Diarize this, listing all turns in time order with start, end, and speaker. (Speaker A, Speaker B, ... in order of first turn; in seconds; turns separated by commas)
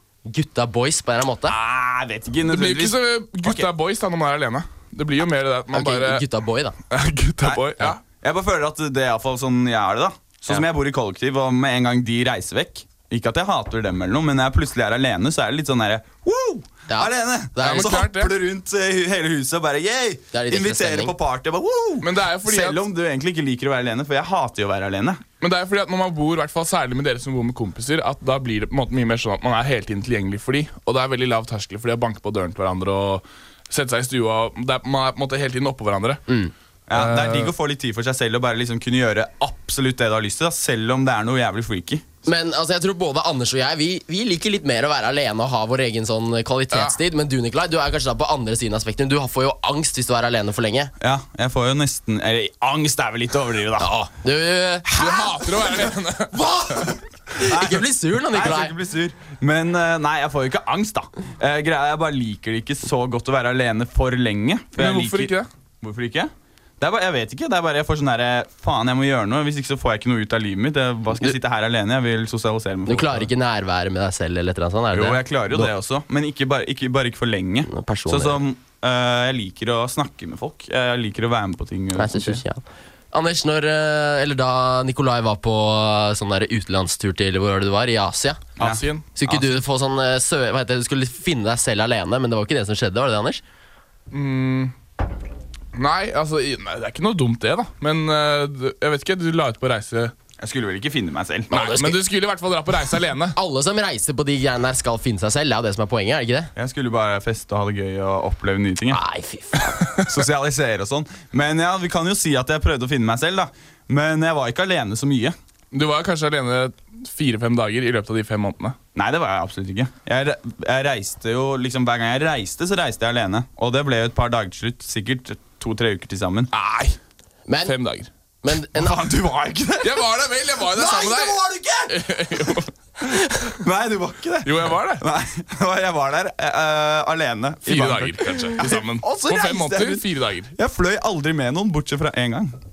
Speaker A: 0.2-1.6, Speaker B: 1.4-3.7, Speaker C: 2.5-6.2, Speaker A: 5.7-6.8, Speaker C: 6.9-8.0, Speaker B: 7.4-25.2, Speaker A: 16.9-18.1, Speaker C: 17.6-18.3, Speaker A: 20.3-21.1, Speaker C: 22.0-22.8, Speaker C: 25.4-36.2, Speaker B: 36.9-42.1, Speaker C: 36.9-37.5, Speaker A: 42.3-50.9, Speaker C: 46.7-47.0, Speaker B: 51.0-53.9, Speaker A: 53.8-55.5, Speaker C: 54.9-56.9, Speaker A: 56.3-58.7, Speaker B: 57.4-73.3, Speaker C: 64.8-65.5, Speaker A: 72.9-75.7, Speaker B: 74.9-82.4, Speaker A: 77.7-78.4, Speaker A: 82.0-88.4, Speaker C: 88.6-89.1, Speaker A: 89.2-93.4, Speaker C: 94.1-94.7, Speaker C: 95.8-100.1, Speaker B: 100.4-101.5, Speaker C: 101.5-103.4, Speaker A: 101.5-102.0, Speaker A: 103.3-106.5, Speaker B: 106.5-109.0, Speaker A: 108.9-109.8, Speaker B: 110.0-115.4, Speaker C: 115.7-118.8, Speaker B: 119.0-126.5, Speaker C: 126.5-127.0, Speaker A: 127.5-127.7, Speaker C: 127.7-128.1, Speaker A: 128.4-129.1, Speaker B: 128.8-130.1, Speaker C: 129.8-132.7, Speaker B: 130.6-132.6, Speaker B: 133.6-142.6, Speaker C: 134.4-135.0, Speaker C: 137.7-140.5